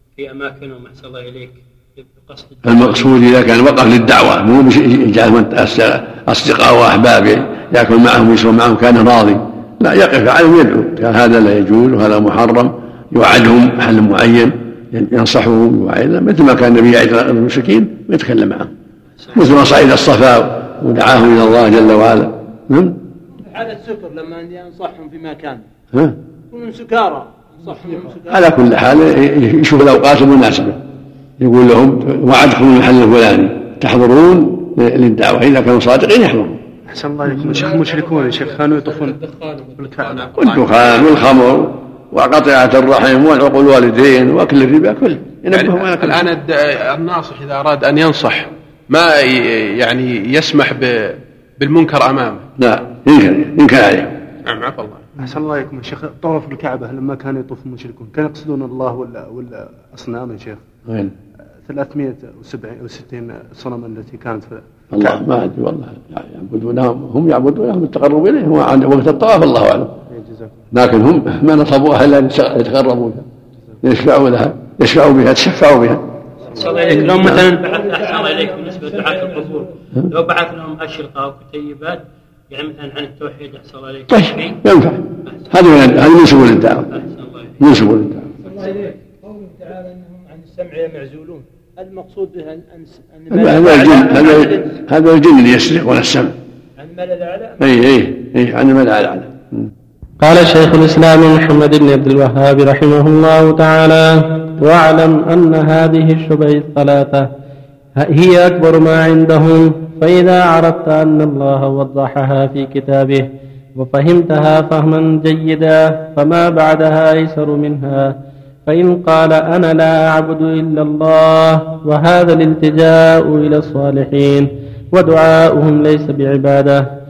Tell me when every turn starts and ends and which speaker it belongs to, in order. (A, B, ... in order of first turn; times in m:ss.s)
0:00.2-0:03.0 A
0:02.6-0:18.7 B
0:19.2-0:19.9 A
0:19.3-0:23.0 B
0:23.4-0:25.6 C
0:26.5-0:28.4 C
0:28.3-0:30.8 B
0:31.4-0:36.6 B
0:36.9-0:39.2 D
0:37.4-0:41.3 E
0:39.8-0:40.3 D
0:40.4-0:46.3 B
0:45.5-0:52.4 E
0:52.6-0:54.2 B
0:54.4-0:55.2 E
0:55.2-1:00.6 D
1:00.9-1:01.1 B
1:01.6-1:05.2 D
1:04.9-1:10.0 B
1:10.1-1:10.5 D
1:10.7-1:13.2 B
1:13.8-1:16.0 B
1:16.4-1:17.1 D
1:16.5-1:24.6 A
1:17.1-1:17.4 B
1:24.1-1:26.9 B
1:25.2-1:27.6 A
1:27.6-1:28.3 B
1:28.4-1:34.7 C
1:28.4-1:28.9 A
1:33.3-1:36.3 B
1:33.4-1:34.4 A
1:36.9-1:37.5 A
1:37.6-1:39.4 B
1:40.2-1:47.3 F
1:48.0-1:53.2 F
1:53.8-1:58.1 F
1:58.7-2:06.8 F